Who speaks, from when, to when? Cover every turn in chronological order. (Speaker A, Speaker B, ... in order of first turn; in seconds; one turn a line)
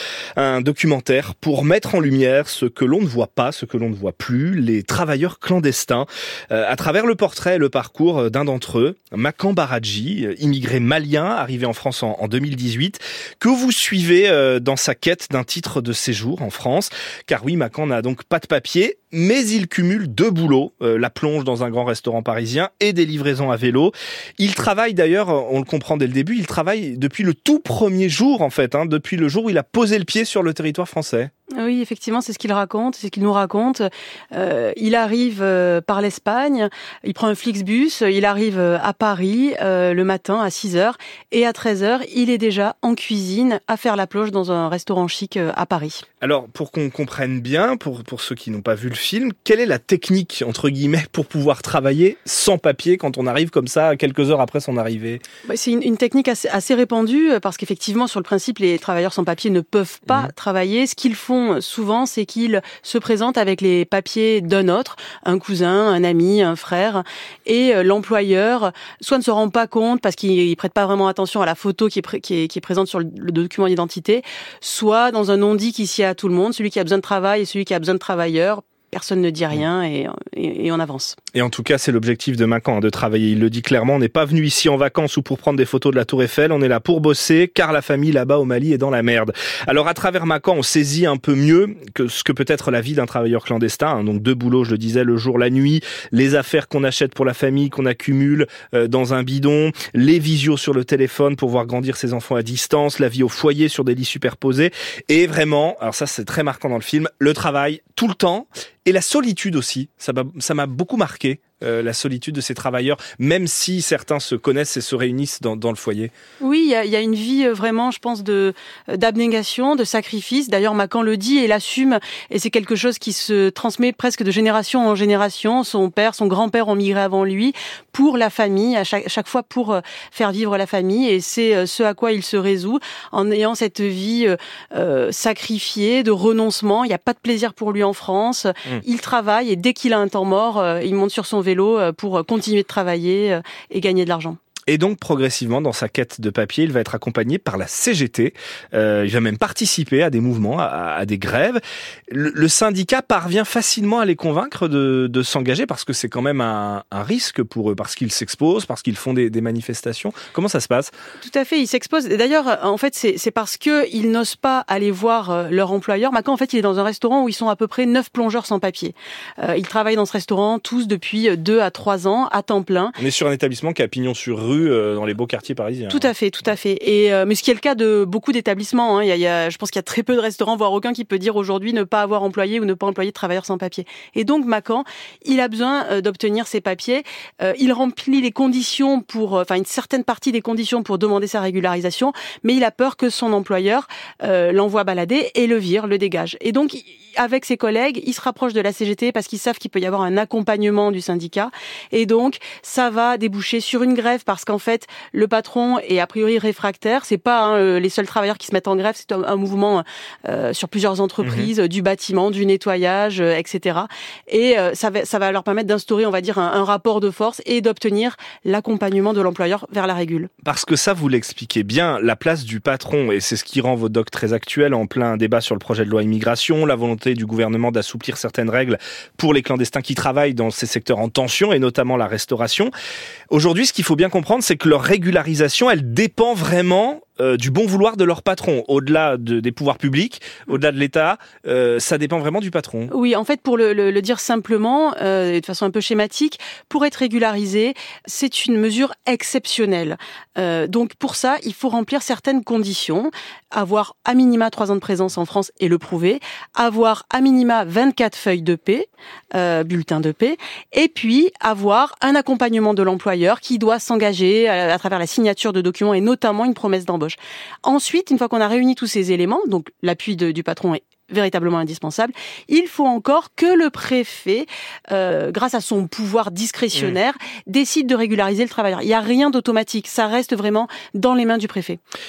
Speaker A: 0.4-31.3
Speaker B: 31.6-46.0
Speaker A: 46.2-55.2
Speaker B: 55.5-81.2
Speaker A: 81.3-116.1
Speaker B: 116.4-144.4
Speaker A: 144.7-160.9
Speaker B: 161.2-173.0
Speaker A: 173.0-176.1
Speaker B: 175.9-220.3
Speaker A: 211.2-211.5
Speaker A: 220.4-232.7
Speaker A: 233.3-242.9
Speaker B: 242.9-281.8